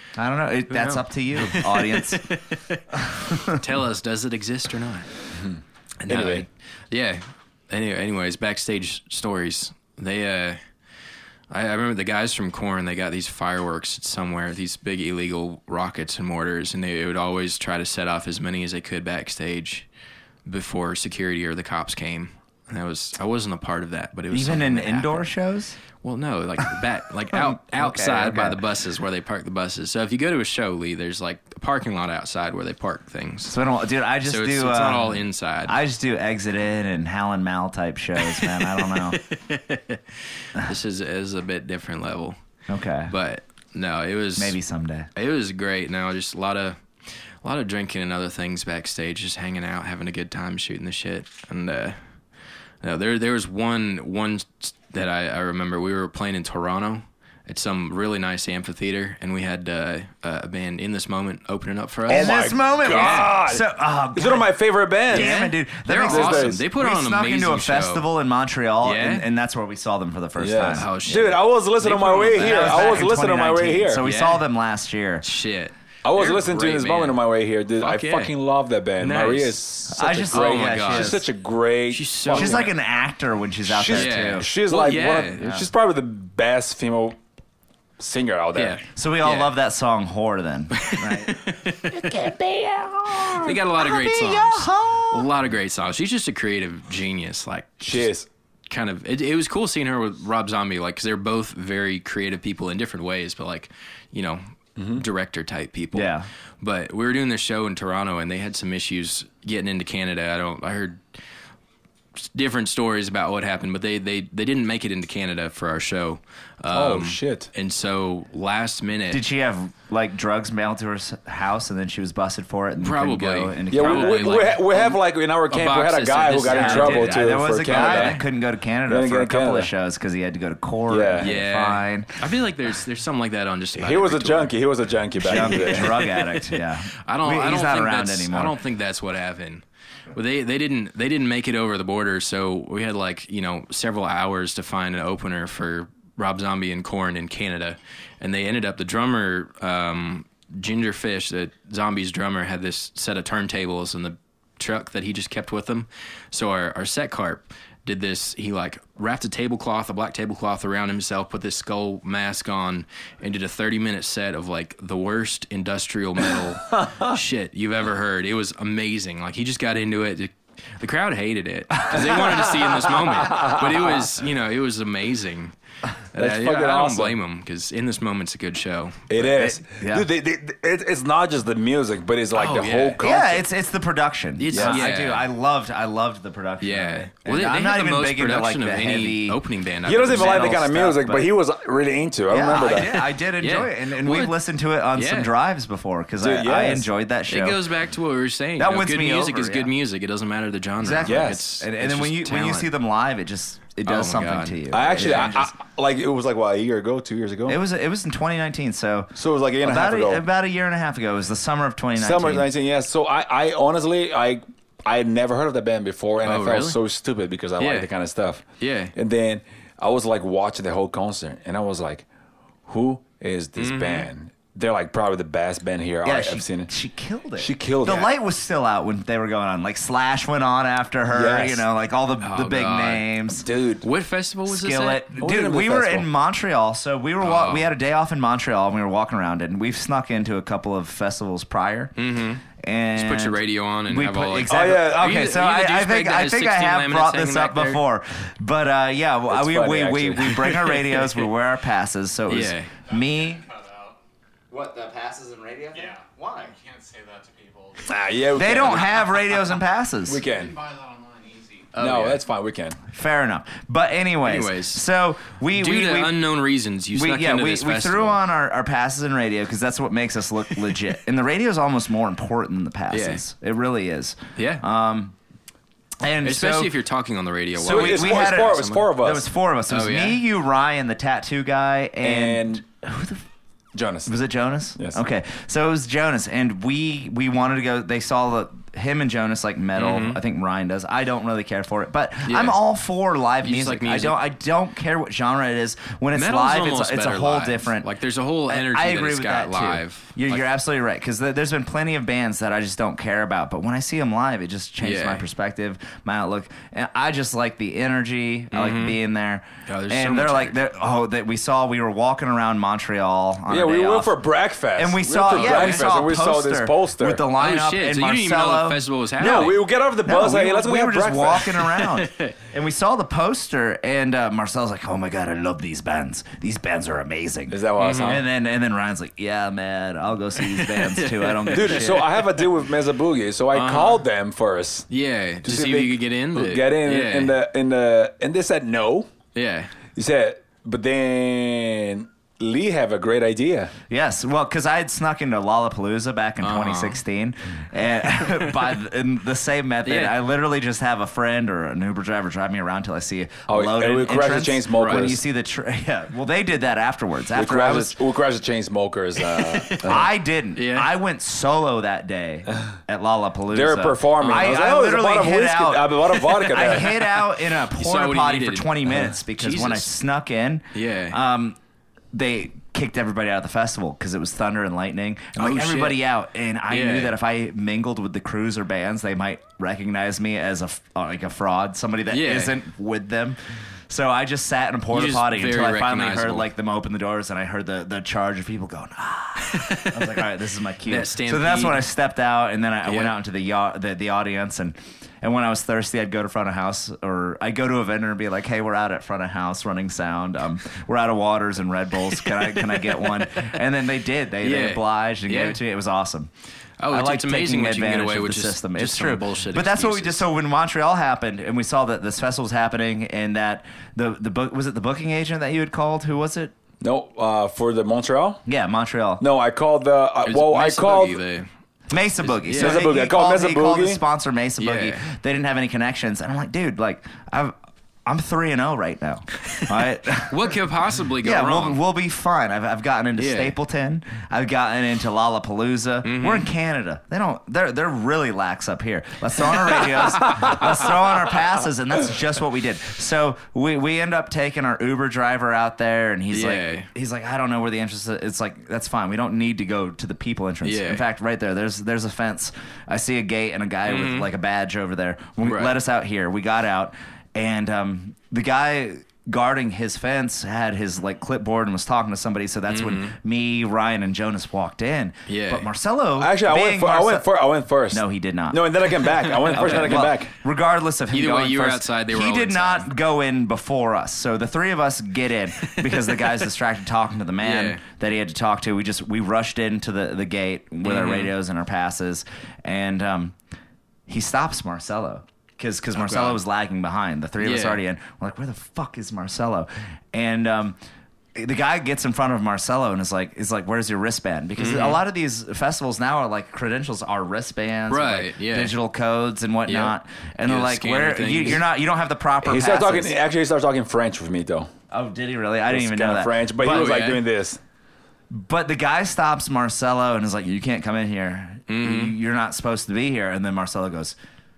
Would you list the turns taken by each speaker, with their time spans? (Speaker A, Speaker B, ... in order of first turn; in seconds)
Speaker A: 0.2-2.3, 3.0-3.6, 24.3-25.8, 27.4-28.6, 33.5-39.2, 42.7-43.1, 44.4-45.1, 62.1-70.9, 72.4-75.2, 79.9-81.2, 82.3-84.5, 85.4-85.7, 89.0-95.3, 105.9-106.3, 119.1-124.5, 126.5-132.2, 135.2-138.6, 179.3-180.1, 183.0-189.4, 190.1-191.3, 192.3-197.6, 198.6-199.7, 200.8-205.5, 207.5-212.5, 226.1-233.5, 234.5-241.9, 242.6-243.4, 243.9-253.4, 254.5-256.5, 258.3-260.2, 262.9-266.1, 266.9-275.1, 276.0-276.7, 277.6-283.2, 284.1-297.9, 298.5-314.1, 314.8-319.5, 320.1-332.1, 343.9-358.0, 359.9-371.6, 372.1-406.3, 406.9-416.5, 418.5-419.2, 421.9-430.6, 431.2-467.3, 467.9-469.0, 469.5-483.4, 484.1-490.8, 491.4-503.1, 504.9-507.0, 508.3-514.1
Speaker B: 0.7-2.8, 3.4-5.1, 6.0-10.6, 11.5-19.9, 20.4-25.3, 26.0-33.6, 34.2-35.8, 38.2-42.4, 43.1-44.6, 45.1-52.0, 52.8-63.4, 65.1-68.1, 68.8-69.3, 70.7-73.2, 74.0-74.4, 75.2-77.2, 77.8-78.3, 79.0-81.3, 81.9-82.7, 83.9-85.5, 88.5-89.5, 90.8-92.1, 93.2-98.1, 98.7-104.4, 104.9-111.0, 112.2-119.2, 122.8-128.2, 131.2-134.6, 135.3-175.5, 176.1-179.2, 182.3-183.1, 184.4-185.3, 186.6-190.6, 192.7-194.4, 194.9-195.3, 197.3-202.7, 203.9-205.4, 216.2-216.8, 217.6-217.9, 218.6-218.9, 223.6-224.1, 232.2-233.1, 233.8-235.1, 237.2-237.7, 242.0-242.4, 243.0-247.8, 250.3-251.3, 252.3-252.7, 261.7-262.2, 264.2-264.8, 265.6-268.2, 272.9-273.2, 274.4-274.6, 276.2-278.9, 279.7-280.2, 289.8-290.2, 292.3-292.6, 293.4-294.2, 296.1-300.4, 304.8-305.2, 308.5-309.0, 309.7-310.6, 315.3-315.9, 317.4-319.7, 321.6-322.3, 327.8-328.2, 330.4-332.1, 333.5-334.1, 334.9-337.3, 339.4-339.8, 346.4-347.0, 348.1-348.5, 349.9-350.2, 354.7-355.2, 359.2-360.0, 360.6-360.9, 364.2-364.6, 366.1-369.9, 370.7-371.2, 375.4-376.0, 376.7-377.1, 382.1-382.6, 384.9-386.5, 389.4-391.9, 392.9-393.1, 402.4-403.6, 404.4-405.6, 406.8-410.2, 420.2-421.5, 422.2-422.9, 424.6-425.0, 430.3-431.8, 433.2-433.5, 436.0-436.5, 446.3-446.9, 450.6-451.0, 453.9-454.3, 455.4-455.8, 462.7-463.1, 465.3-465.7, 469.3-470.0, 471.1-472.9, 475.7-476.5, 477.4-477.8, 480.8-481.3, 485.9-486.4, 487.4-487.8, 494.6-495.0, 497.9-498.8, 499.7-501.6, 506.6-507.2, 511.7-512.1
Speaker C: 5.3-6.5, 62.1-65.3, 66.1-66.6, 70.4-74.0, 76.0-82.7, 83.7-87.2, 88.0-88.8, 97.8-98.3, 104.8-105.0, 116.7-117.5, 123.7-128.2, 128.9-129.7, 130.9-131.3, 133.8-136.0, 173.1-174.1, 176.2-177.2, 179.1-183.4, 184.5-184.9, 189.8-192.9, 196.2-196.9, 201.0-201.4, 204.7-207.6, 209.2-210.2, 212.0-218.4, 218.9-222.1, 222.7-226.7, 227.4-228.1, 231.1-231.6, 233.4-233.8, 235.2-236.1, 244.5-245.2, 249.3-250.6, 257.8-259.1, 260.1-260.6, 261.8-262.8, 277.6-279.3, 282.0-282.6, 283.7-284.1, 313.5-317.2, 319.2-321.6, 327.5-328.3, 331.5-334.9, 335.4-339.1, 339.9-343.7, 353.5-355.2, 357.4-360.1, 363.5-366.9, 416.8-418.4, 419.2-421.2, 422.6-424.0, 466.2-470.3, 502.4-504.7, 505.7-507.6
Speaker D: 252.8-254.0, 255.7-258.1, 260.2-261.7